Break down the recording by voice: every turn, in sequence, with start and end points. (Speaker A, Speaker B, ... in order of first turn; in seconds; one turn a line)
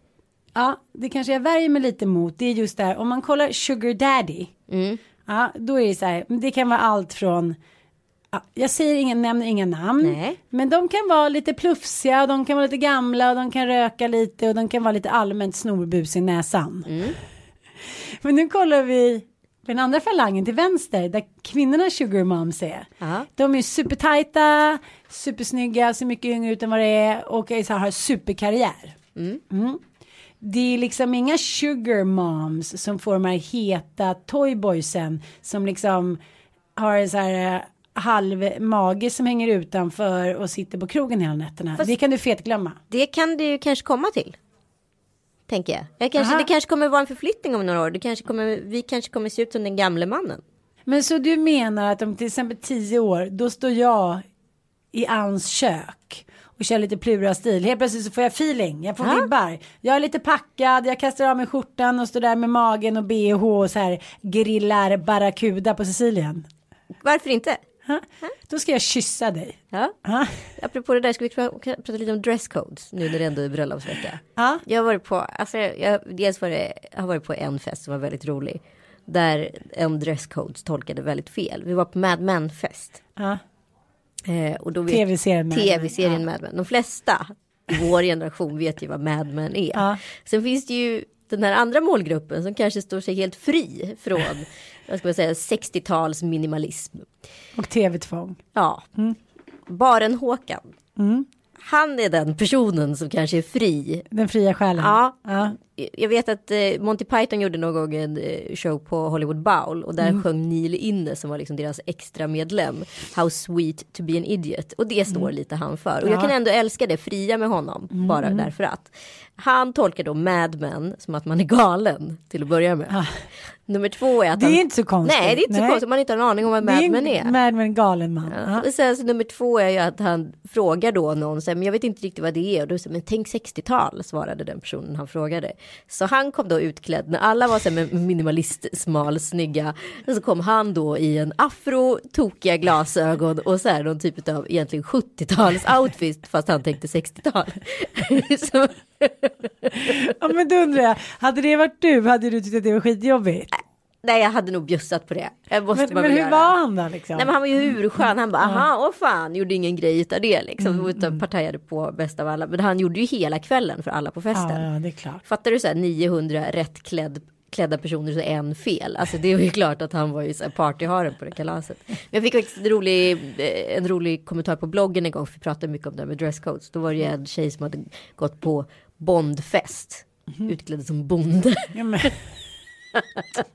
Speaker A: 0.5-4.5
Speaker B: 4.7-5.0
Speaker A: 5.2-7.6
Speaker A: 8.3-17.1
Speaker B: 10.0-10.4
Speaker B: 16.9-17.2
Speaker A: 17.8-29.0
Speaker B: 23.0-23.3
Speaker B: 29.1-29.4
Speaker A: 29.5-29.8
Speaker A: 30.4-36.2
Speaker A: 36.8-42.8
Speaker B: 42.9-44.4
Speaker B: 45.5-50.4
Speaker A: 46.2-46.5
Speaker A: 50.9-54.2
Speaker A: 54.9-66.5
Speaker B: 59.0-59.3
Speaker B: 67.0-67.6
Speaker A: 67.8-70.5
Speaker B: 70.6-83.0
Speaker A: 74.3-74.6
Speaker B: 84.2-97.1
Speaker A: 84.9-86.2
Speaker A: 89.7-90.0
Speaker A: 97.5-98.4
Speaker B: 98.5-98.8
Speaker B: 99.7-100.6
Speaker A: 101.0-101.3
Speaker B: 101.6-104.0
Speaker A: 104.1-105.5
Speaker B: 104.8-123.0
Speaker A: 116.0-116.3
Speaker A: 117.9-118.5
Speaker B: 123.7-127.3
Speaker A: 124.3-125.8
Speaker A: 126.6-128.7
Speaker B: 128.3-150.0
Speaker A: 149.8-153.5
Speaker B: 154.0-156.5
Speaker A: 155.7-157.3
Speaker B: 157.1-164.7
Speaker A: 158.4-158.6
Speaker A: 160.6-161.2
Speaker A: 164.3-165.2
Speaker B: 165.2-181.7
Speaker A: 181.7-182.2